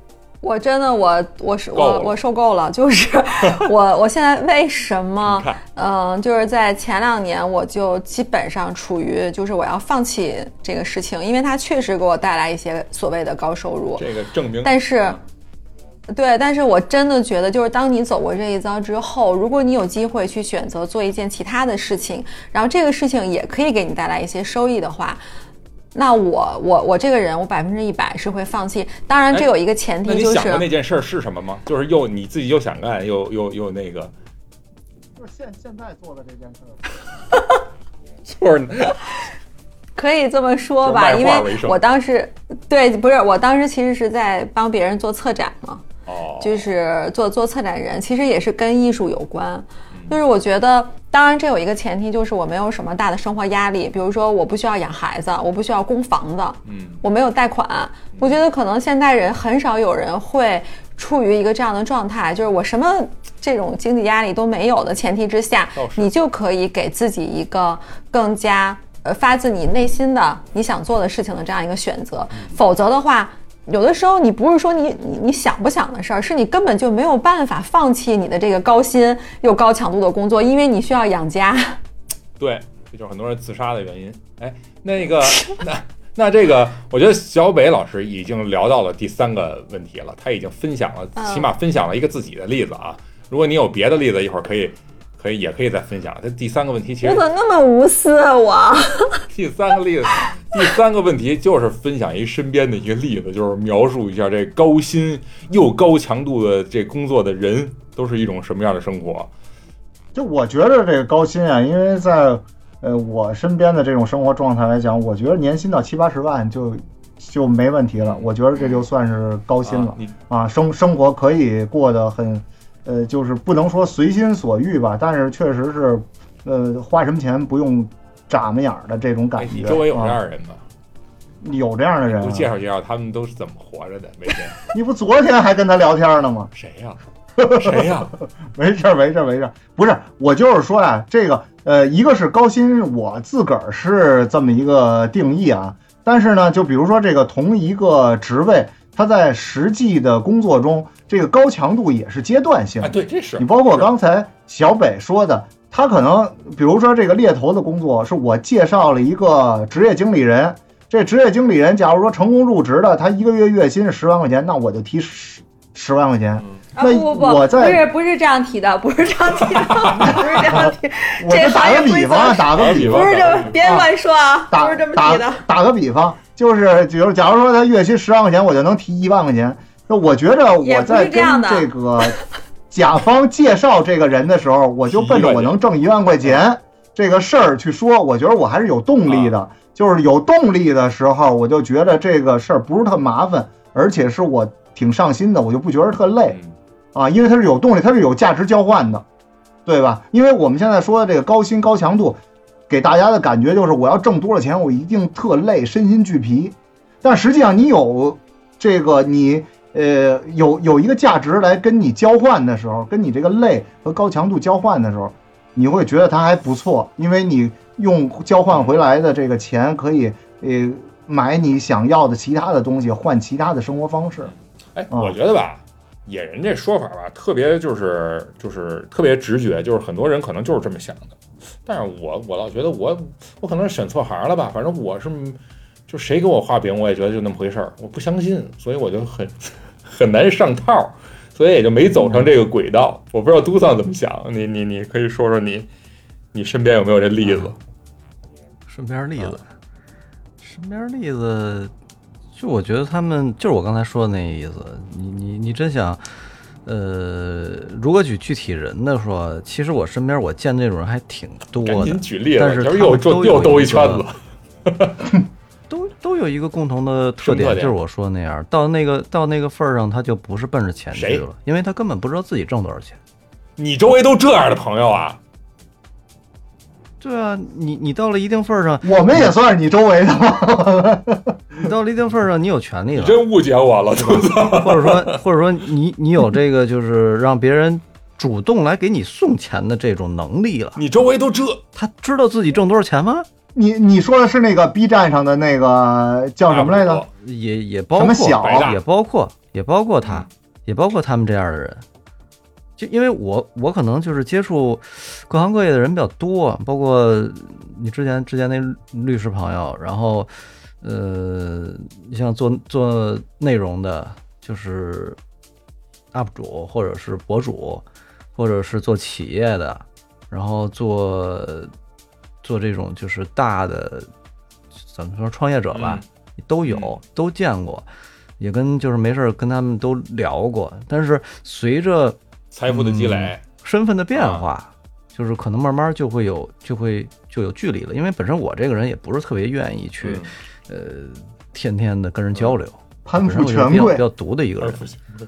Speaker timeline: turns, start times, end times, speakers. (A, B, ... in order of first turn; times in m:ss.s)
0:00.4-0:14.1 A
0:01.7-0:02.2 B
0:05.2-0:05.6 B
0:14.0-0:15.2 B
0:14.6-0:15.2 A
0:16.1-0:25.2 A
0:25.9-0:30.7 A
0:30.0-0:34.1 B
0:35.2-0:36.8 C
0:38.2-0:39.0 B
0:40.0-0:45.8 A
0:40.8-0:41.8 B
0:46.0-0:46.7 B
0:46.4-1:21.8 A
0:49.9-0:50.2 B
0:56.6-0:57.0 B
1:05.8-1:06.1 B
1:22.4-1:37.2 B
1:31.2-1:31.5 A
1:37.0-1:39.2 A
1:39.3-1:49.3 B
1:50.1-2:10.2 C
1:58.0-1:58.3 B
1:59.6-2:00.1 B
2:09.4-2:10.6 B
2:11.4-2:12.5 C
2:12.1-2:14.6 B
2:14.7-2:16.5 C
2:16.5-2:17.0 B
2:17.4-2:47.8 C
2:17.5-2:18.1 B
2:32.8-2:33.9 B
2:46.7-2:55.4 A
2:49.7-2:50.3 B
2:51.2-2:53.9 C
2:52.5-2:53.6 B
2:54.5-3:02.2 C
3:00.6-3:01.7 A
3:02.7-3:16.4 C
3:04.9-3:05.5 B
3:09.1-3:09.3 B
3:16.3-3:16.5 B
3:16.9-3:19.0 C
3:19.6-3:44.3 C
3:38.5-3:38.8 B
3:44.2-4:05.7 B
3:44.9-3:45.2 C
4:02.0-4:02.3 D
4:06.3-4:07.6 B
4:07.2-4:07.5 D
4:08.7-4:09.4 D
4:10.4-4:11.7 D
4:12.3-4:16.0 D
4:16.6-4:24.0 D
4:21.6-4:25.1 B
4:25.7-4:33.0 D
4:27.2-4:27.8 B
4:30.9-4:31.2 B
4:33.6-4:35.2 B
4:37.0-4:39.3 D
4:38.8-4:41.4 C
4:41.5-4:43.2 D
4:42.9-4:45.2 B
4:43.9-4:50.8 D
4:50.8-4:51.6 B
4:51.7-4:53.3 D
4:53.5-4:57.0 C
4:56.5-4:57.1 B
4:57.2-5:01.8 D
4:57.9-4:58.7 C
4:58.4-4:58.8 B
5:00.0-5:00.3 B
5:02.8-5:15.2 D
5:16.1-5:17.8 D
5:18.4-5:21.7 D
5:22.4-5:24.1 D
5:24.8-5:27.8 D
5:25.7-5:26.0 B
5:26.6-5:27.0 B
5:28.4-5:44.8 D
5:32.5-5:33.4 B
5:34.1-5:34.5 B
5:40.0-5:40.3 B
5:43.0-5:44.0 C
5:44.6-5:45.1 B